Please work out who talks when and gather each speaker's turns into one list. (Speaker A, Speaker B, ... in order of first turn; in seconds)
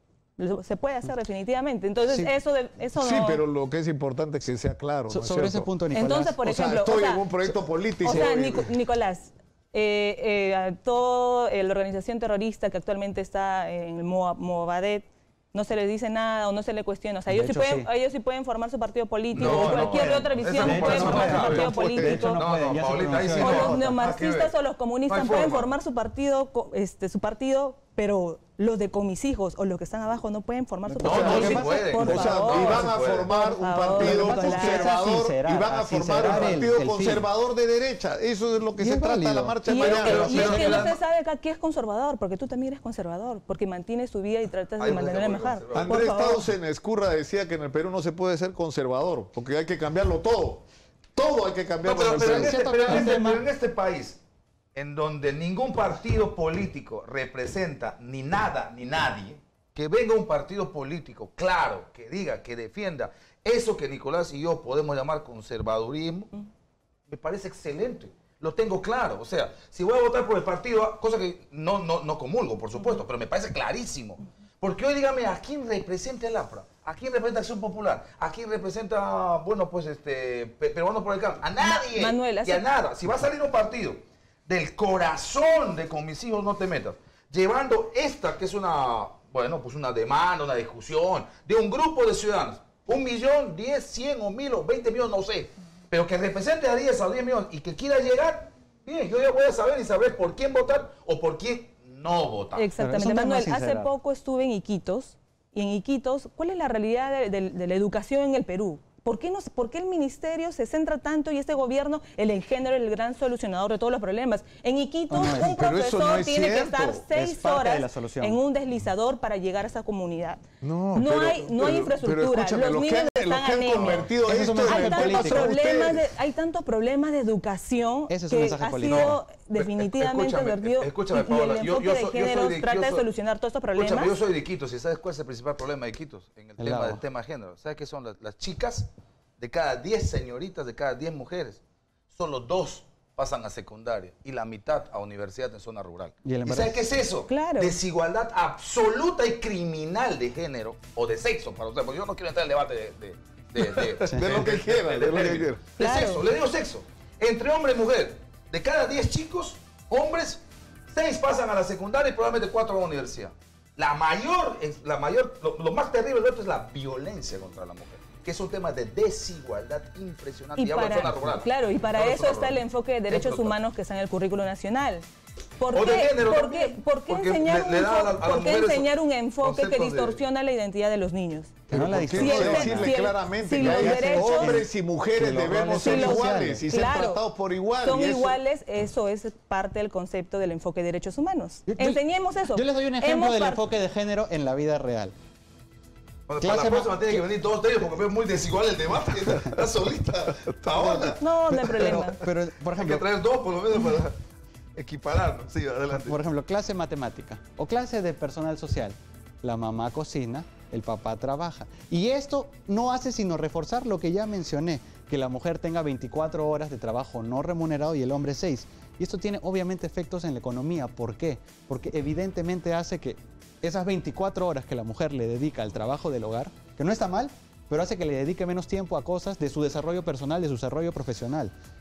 Speaker A: 0.4-3.4, 5.9-7.3, 8.0-22.4, 23.4-34.9, 39.7-46.4, 81.6-82.6, 102.5-120.4, 120.9-124.1, 124.6-134.2, 147.3-147.7, 155.8-156.2, 170.6-184.6, 185.8-187.2, 187.8-193.6, 201.2-202.2
Speaker B: 3.0-5.7, 6.4-8.7, 31.0-40.8, 45.7-50.6, 51.1-53.1, 115.1-117.0, 120.6-126.1, 153.6-155.6, 181.7-188.4
Speaker C: 5.1-6.4, 17.3-17.9, 19.4-24.0, 30.9-32.3, 33.9-37.3, 38.8-40.9, 51.9-53.4, 102.8-103.9, 115.1-115.6, 117.1-118.4, 124.2-125.5, 128.1-129.2, 136.6-137.0, 146.2-146.9, 154.1-154.3, 181.7-183.0, 183.5-186.6, 191.7-195.1, 196.4-197.2, 200.7-203.1, 205.9-231.5
Speaker D: 19.3-24.5, 25.1-25.7, 31.0-33.3, 39.8-41.0, 44.8-46.1, 51.8-54.2, 54.7-66.3, 67.1-102.6, 128.8-133.0, 133.7-141.6, 142.1-173.5, 175.7-180.2, 196.3-201.2, 202.8-204.2, 204.8-206.2